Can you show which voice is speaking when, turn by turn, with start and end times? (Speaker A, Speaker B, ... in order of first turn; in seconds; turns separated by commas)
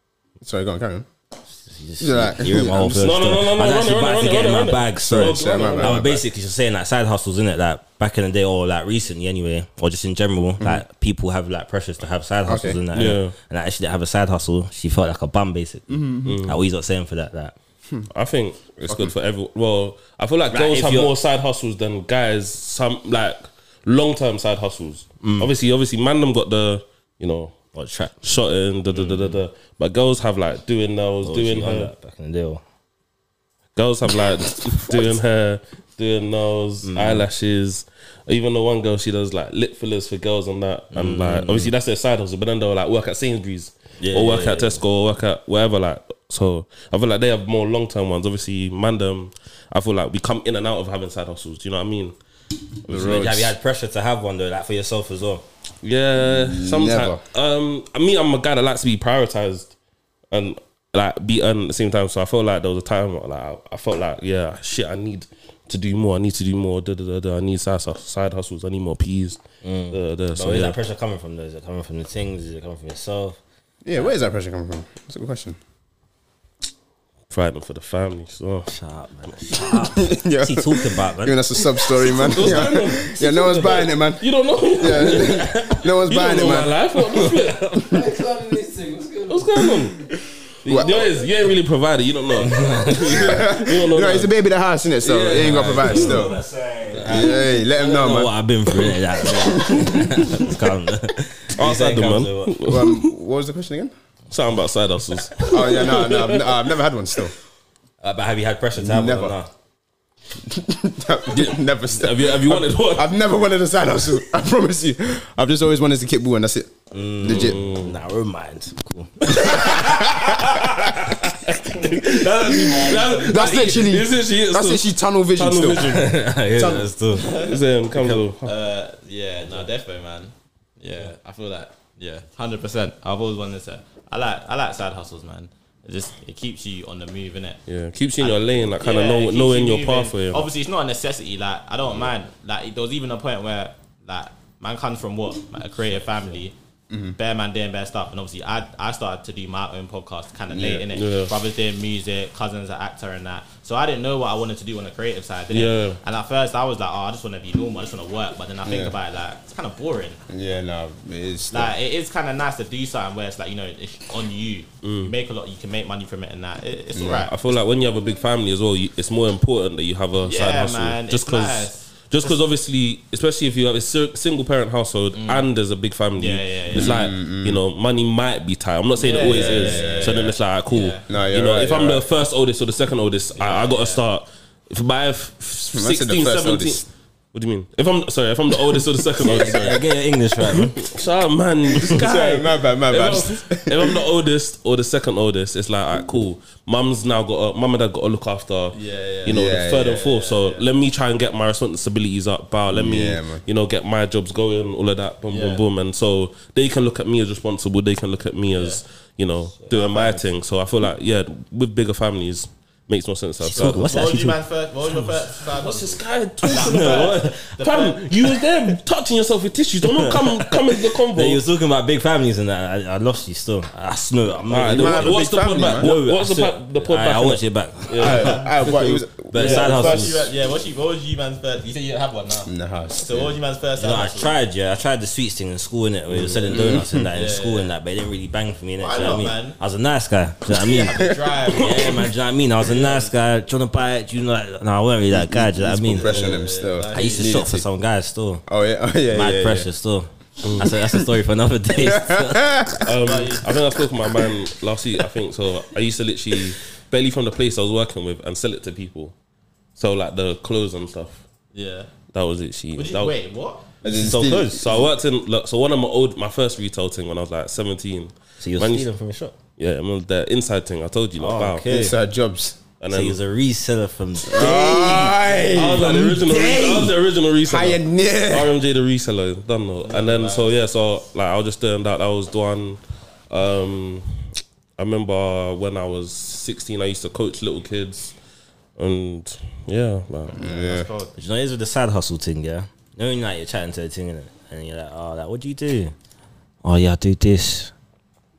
Speaker A: 0.4-1.1, Speaker B: 1.6-17.5, Speaker A: 2.0-3.1, Speaker C: 2.9-6.2, Speaker A: 5.0-6.2, Speaker A: 12.4-12.8, Speaker C: 12.9-13.3, Speaker A: 15.9-16.4, Speaker C: 16.2-16.6, Speaker C: 18.1-27.5, Speaker A: 18.9-19.1, Speaker B: 20.5-21.1, Speaker B: 25.2-25.5, Speaker B: 27.7-28.2, Speaker C: 28.2-31.9, Speaker B: 28.9-29.4, Speaker B: 31.2-32.6, Speaker C: 33.8-52.1, Speaker B: 36.8-37.2, Speaker B: 40.9-41.7, Speaker B: 44.0-44.8, Speaker C: 52.9-53.4, Speaker A: 52.9-53.5, Speaker B: 52.9-55.4, Speaker C: 55.8-59.7, Speaker A: 56.1-57.2, Speaker C: 60.3-69.4, Speaker B: 69.6-73.4, Speaker C: 69.9-70.8, Speaker A: 73.8-75.6, Speaker C: 77.3-78.7, Speaker B: 78.7-81.6, Speaker A: 79.9-86.8, Speaker C: 82.1-87.9, Speaker D: 87.9-89.9, Speaker C: 89.3-90.0, Speaker C: 90.6-94.3, Speaker A: 90.6-91.1, Speaker B: 92.4-93.3, Speaker A: 93.1-96.3, Speaker C: 95.0-96.3, Speaker B: 95.3-102.6, Speaker C: 96.9-97.2, Speaker A: 97.0-98.3, Speaker A: 99.3-100.1, Speaker C: 99.5-100.5, Speaker C: 101.5-103.1, Speaker A: 102.6-103.9, Speaker C: 104.3-106.6, Speaker A: 105.4-107.3, Speaker B: 108.0-109.5, Speaker A: 108.8-109.3, Speaker A: 110.5-117.6, Speaker C: 111.3-113.1, Speaker B: 116.9-120.0, Speaker C: 117.3-118.0, Speaker C: 119.3-126.1, Speaker A: 119.4-120.6, Speaker B: 122.2-123.2, Speaker E: 122.5-123.3, Speaker A: 123.2-126.0, Speaker B: 125.8-127.3, Speaker A: 126.5-126.9, Speaker E: 127.2-127.6, Speaker C: 127.3-128.5, Speaker E: 128.4-137.6, Speaker C: 137.7-140.5, Speaker E: 138.2-146.5, Speaker A: 146.9-147.2, Speaker E: 147.2-160.2, Speaker A: 150.5-150.8, Speaker C: 150.9-151.3, Speaker C: 155.5-156.0, Speaker A: 158.6-158.9, Speaker A: 160.3-161.7, Speaker E: 161.5-167.3, Speaker C: 164.8-165.1, Speaker A: 166.9-167.3, Speaker C: 167.2-189.8, Speaker E: 170.2-172.4, Speaker E: 175.1-175.5, Speaker E: 176.2-177.0, Speaker A: 176.7-177.6, Speaker E: 179.0-181.1, Speaker A: 179.2-180.2, Speaker A: 181.1-182.1, Speaker E: 183.3-184.0, Speaker A: 185.7-186.8, Speaker B: 189.2-190.8, Speaker C: 190.4-213.9, Speaker A: 191.7-194.0, Speaker E: 198.7-200.7, Speaker A: 199.2-200.1, Speaker A: 202.7-203.4, Speaker E: 205.3-205.6, Speaker E: 208.5-208.8, Speaker E: 209.7-210.3, Speaker E: 213.4-218.4, Speaker B: 213.4-214.4, Speaker C: 214.9-221.4, Speaker B: 216.5-217.4, Speaker B: 219.9-230.3, Speaker C: 224.5-228.4, Speaker A: 224.6-225.9, Speaker A: 228.0-230.2, Speaker E: 229.3-234.3, Speaker A: 232.5-233.3, Speaker B: 233.8-248.4, Speaker C: 236.1-236.4, Speaker A: 236.5-237.1, Speaker E: 237.1-237.7, Speaker E: 238.8-239.6, Speaker E: 240.5-242.1, Speaker A: 240.8-241.4, Speaker E: 242.6-243.1, Speaker A: 245.1-247.7, Speaker E: 246.0-247.4, Speaker A: 248.5-249.7, Speaker B: 249.1-252.5, Speaker C: 250.4-250.7, Speaker A: 251.7-252.9, Speaker C: 252.8-259.1, Speaker E: 253.0-253.5, Speaker C: 259.8-261.2, Speaker E: 261.5-261.9, Speaker C: 262.1-263.1, Speaker E: 262.8-263.6, Speaker A: 263.8-264.6, Speaker B: 263.8-264.6, Speaker C: 264.5-268.9, Speaker B: 268.4-269.3, Speaker C: 269.6-271.7, Speaker B: 271.2-271.9, Speaker A: 271.6-272.6, Speaker C: 272.8-273.2, Speaker B: 272.9-275.1, Speaker A: 274.2-278.5, Speaker C: 274.5-284.1, Speaker E: 279.8-280.6, Speaker C: 284.8-288.1, Speaker C: 288.8-290.4, Speaker E: 290.3-291.1, Speaker A: 290.4-290.9, Speaker B: 291.1-295.9, Speaker B: 296.6-297.7